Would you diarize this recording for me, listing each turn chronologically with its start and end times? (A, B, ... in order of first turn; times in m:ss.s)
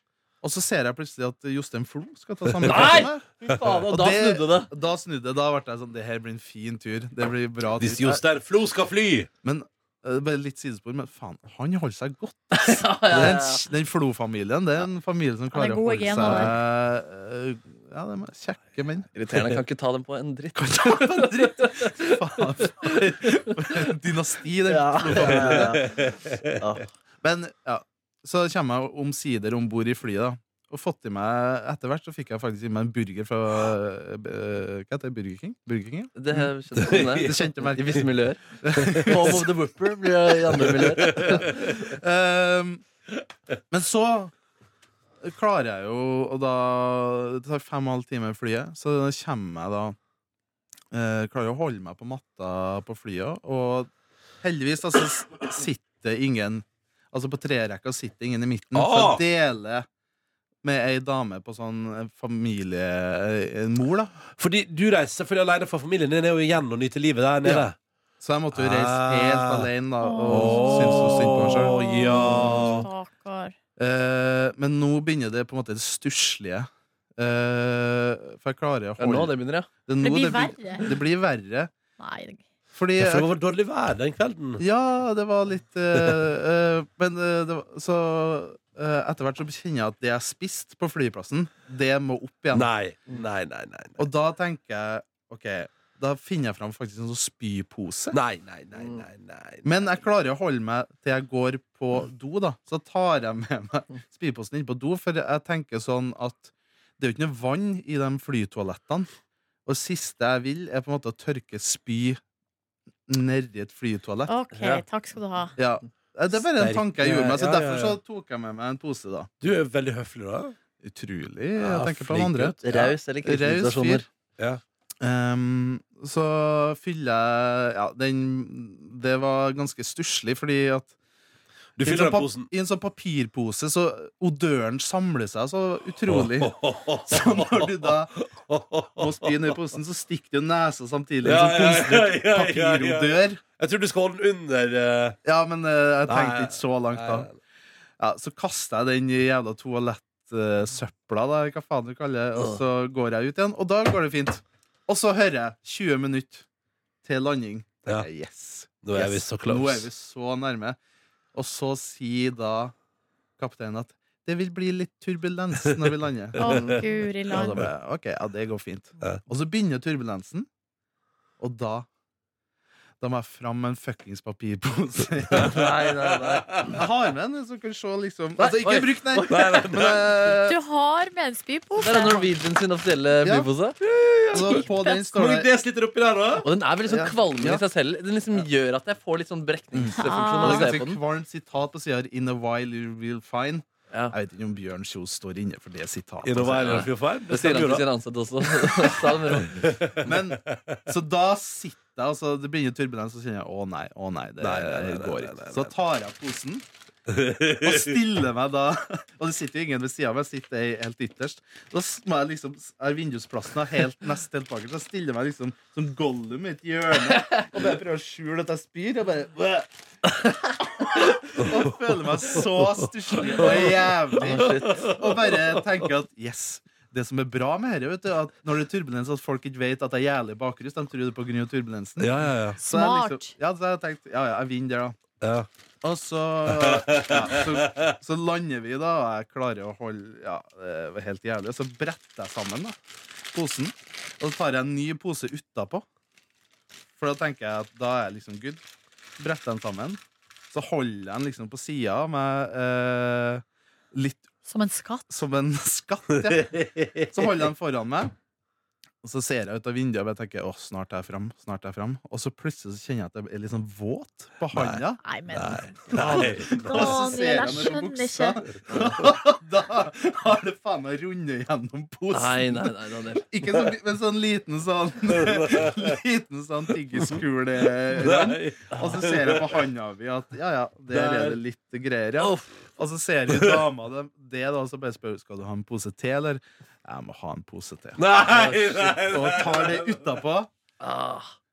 0:00.4-0:03.2 A
0:02.5-0:03.1 B
0:02.6-0:04.7 C
0:03.9-0:08.2 A
0:07.8-0:09.3 B
0:09.4-0:19.1 A
0:12.5-0:13.6 C
0:15.5-0:16.5 D
0:16.2-0:16.5 C
0:19.1-0:23.9 C
0:20.6-0:25.9 A
0:24.7-0:26.0 C
0:25.1-0:26.6 B
0:26.6-0:26.9 C
0:27.2-0:38.1 A
0:36.2-0:38.4 C
0:36.8-0:38.0 B
0:38.6-0:39.5 A
0:38.8-0:39.4 B
0:39.0-0:41.9 C
0:40.4-0:41.8 B
0:41.4-0:42.8 A
0:43.7-0:44.3 A
0:45.2-0:50.0 A
0:50.9-0:53.9 A
0:54.4-0:59.8 A
0:58.7-0:59.2 B
1:00.6-1:04.1 A
1:04.4-1:07.7 B
1:08.2-1:12.8 A
1:08.5-1:09.7 B
1:10.0-1:13.5 D
1:10.3-1:12.9 B
1:13.8-1:19.3 A
1:19.0-1:19.7 C
1:19.8-1:21.7 A
1:20.0-1:20.9 D
1:22.0-1:22.4 D
1:22.7-1:23.2 A
1:23.0-1:24.6 B
1:24.6-1:32.7 A
1:32.5-1:34.0 B
1:34.0-1:38.2 A
1:38.1-1:39.7 B
1:38.7-1:39.0 C
1:39.6-1:49.1 A
1:49.6-1:52.2 A
1:53.1-1:54.3 A
1:54.3-1:55.5 D
1:54.5-1:54.8 C
1:55.6-1:59.3 A
1:56.4-1:58.0 B
1:59.4-2:00.5 B
2:00.8-2:04.0 A
2:01.6-2:02.6 B
2:02.6-2:04.1 C
2:05.0-2:10.9 A
2:11.8-2:12.5 B
2:11.8-2:16.5 A
2:16.1-2:19.6 B
2:17.0-2:18.2 A
2:19.0-2:23.4 A
2:21.2-2:25.2 B
2:25.2-2:27.3 A
2:26.1-2:27.4 B
2:28.0-2:36.4 A
2:37.0-2:40.8 A
2:38.8-2:39.9 B
2:41.3-2:42.7 A
2:43.4-2:50.5 A
2:46.4-2:47.7 D
2:46.4-2:46.8 B
2:51.4-2:51.9 A
2:53.0-2:55.7 A
2:55.4-2:56.8 B
2:55.4-2:56.7 C
2:56.7-3:00.6 A
2:58.4-2:59.7 C
2:59.3-3:00.1 B
3:00.4-3:02.3 D
3:01.8-3:03.8 C
3:03.2-3:03.5 A
3:03.8-3:06.5 B
3:04.3-3:05.5 A
3:04.4-3:05.0 D
3:06.4-3:11.0 C
3:06.8-3:07.6 A
3:09.7-3:16.9 A
3:10.0-3:10.7 D
3:16.2-3:17.9 B
3:16.6-3:19.7 C
3:18.5-3:20.8 B
3:20.0-3:26.6 A
3:24.4-3:25.7 B
3:27.1-3:27.9 B
3:27.6-3:39.7 A
3:37.0-3:37.5 C
3:40.6-3:55.0 A
3:42.4-3:43.7 B
3:43.3-3:45.0 C
3:44.2-3:45.5 B
3:52.0-3:52.6 B
3:52.6-3:53.3 D
3:55.2-3:55.5 B
3:55.8-4:02.8 A
3:56.5-3:57.9 B
4:03.3-4:05.8 A
4:07.0-4:08.6 A
4:09.2-4:10.0 A
4:10.5-4:14.3 A
4:14.4-4:15.0 D
4:15.1-4:16.6 A
4:16.1-4:17.4 B
4:17.1-4:18.1 A
4:19.0-4:25.0 A
4:24.5-4:27.0 B
4:25.0-4:28.4 D
4:25.9-4:32.7 A
4:26.0-4:26.4 C
4:28.7-4:29.0 C
4:32.1-4:33.3 C
4:33.3-4:50.5 A
4:35.1-4:36.0 B
4:37.9-4:39.6 B
4:40.9-4:41.4 B
4:42.2-4:42.5 C
4:43.3-4:43.6 B
4:48.0-4:49.9 B
4:50.8-4:51.3 C